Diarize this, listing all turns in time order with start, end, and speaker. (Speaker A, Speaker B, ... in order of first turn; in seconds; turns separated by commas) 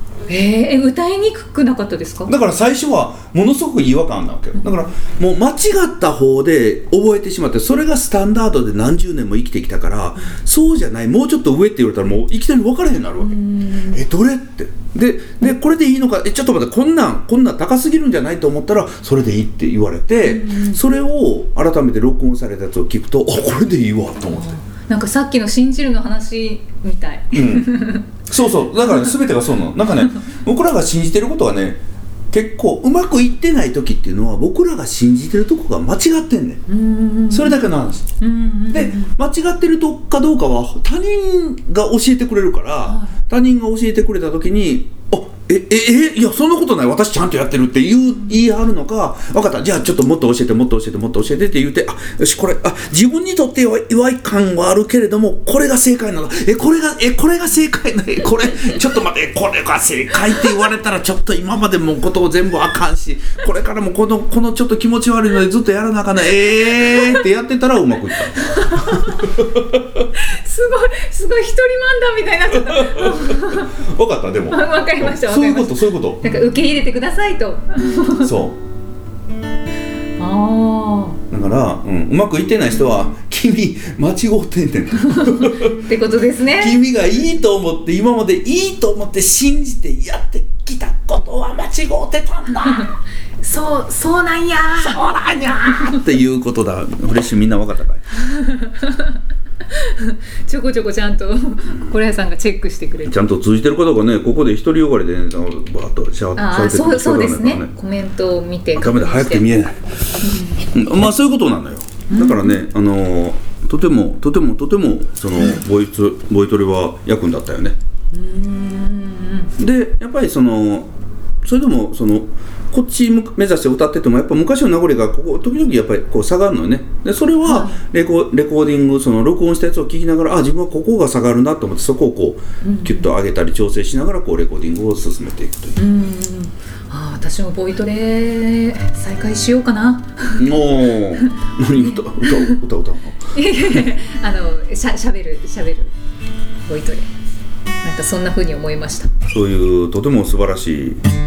Speaker A: 0.3-2.3, Speaker B: 2.3-13.3, Speaker A: 4.6-4.9, Speaker A: 13.2-14.0, Speaker B: 13.9-24.5, Speaker A: 20.2-20.8, Speaker A: 24.2-28.0, Speaker B: 27.3-27.7, Speaker B: 28.3-36.6, Speaker A: 36.7-37.6, Speaker B: 37.3-38.1, Speaker A: 38.2-39.1, Speaker B: 38.7-68.4, Speaker A: 42.8-43.2, Speaker A: 66.8-67.2, Speaker A: 68.4-69.3, Speaker A: 70.2-73.7, Speaker B: 72.7-76.2, Speaker A: 74.5-78.4, Speaker B: 78.2-78.5, Speaker A: 80.2-81.2, Speaker B: 81.3-85.6, Speaker A: 85.1-86.8, Speaker B: 86.6-92.9, Speaker A: 92.6-95.0, Speaker B: 94.8-98.0, Speaker A: 98.2-99.2, Speaker A: 99.7-103.2, Speaker B: 103.0-107.7, Speaker A: 106.3-109.5, Speaker B: 108.8-109.8, Speaker A: 110.2-110.6, Speaker B: 110.7-117.7, Speaker A: 112.1-112.7, Speaker A: 118.1-119.5, Speaker B: 119.6-120.9, Speaker B: 121.4-135.8, Speaker A: 127.4-127.8, Speaker A: 132.6-133.1, Speaker A: 135.8-140.6, Speaker B: 140.4-143.2, Speaker A: 141.2-142.6, Speaker A: 143.3-145.9, Speaker A: 146.6-147.1, Speaker A: 147.8-149.1, Speaker B: 149.3-151.0